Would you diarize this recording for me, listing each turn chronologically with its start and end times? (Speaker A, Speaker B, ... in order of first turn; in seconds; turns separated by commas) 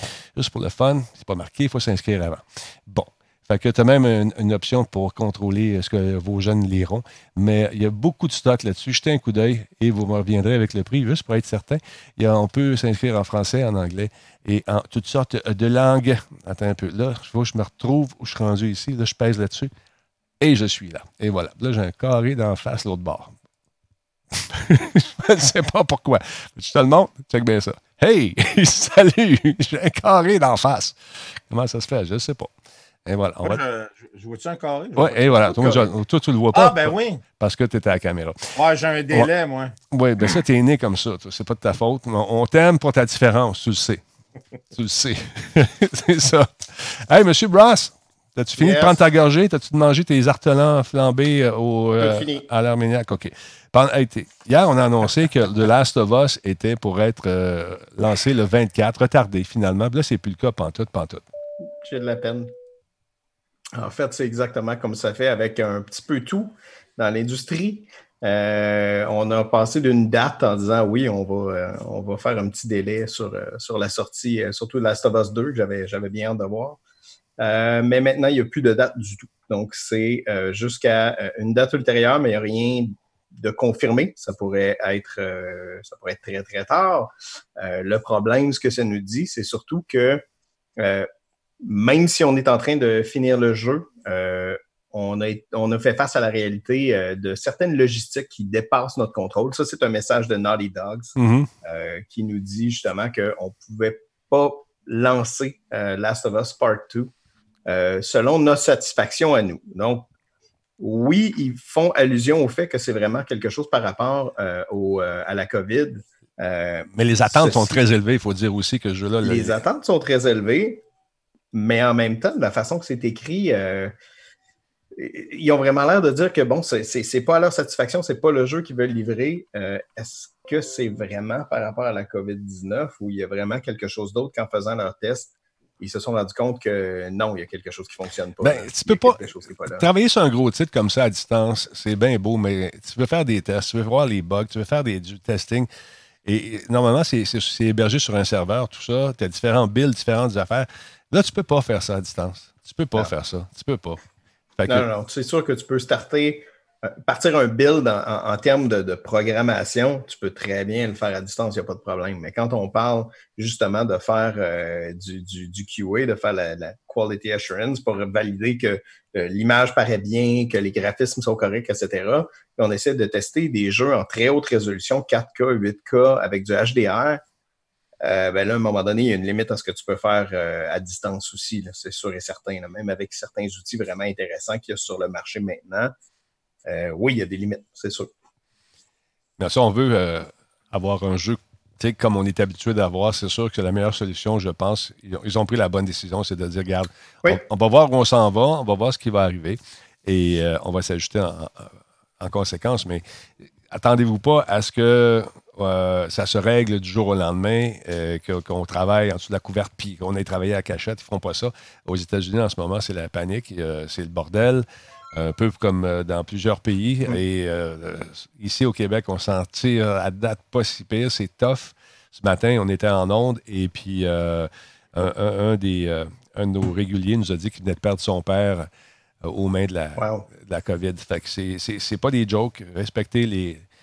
Speaker A: 0.3-19.7, Speaker A: 20.4-23.3, Speaker A: 24.4-31.0, Speaker A: 31.5-32.5, Speaker A: 33.1-33.6, Speaker B: 33.4-35.9, Speaker A: 35.0-38.5, Speaker B: 36.5-37.2, Speaker B: 38.6-39.7, Speaker A: 39.9-44.0, Speaker A: 44.7-61.2, Speaker C: 48.6-49.0, Speaker C: 52.0-52.5, Speaker C: 61.8-62.5, Speaker C: 63.7-76.8, Speaker C: 77.4-90.2, Speaker C: 90.8-91.1, Speaker C: 91.6-107.1, Speaker A: 101.2-101.5, Speaker C: 107.7-110.1, Speaker C: 110.8-117.8, Speaker A: 117.0-119.6, Speaker C: 119.2-120.8, Speaker C: 121.5-123.9, Speaker C: 124.9-139.9, Speaker A: 138.4-145.7, Speaker A: 146.2-154.0, Speaker A: 154.6-154.9, Speaker C: 154.7-177.2, Speaker C: 178.0-185.9, Speaker C: 186.7-188.1, Speaker A: 189.4-203.0, Speaker A: 203.7-228.7, Speaker A: 229.2-233.6, Speaker C: 230.0-230.3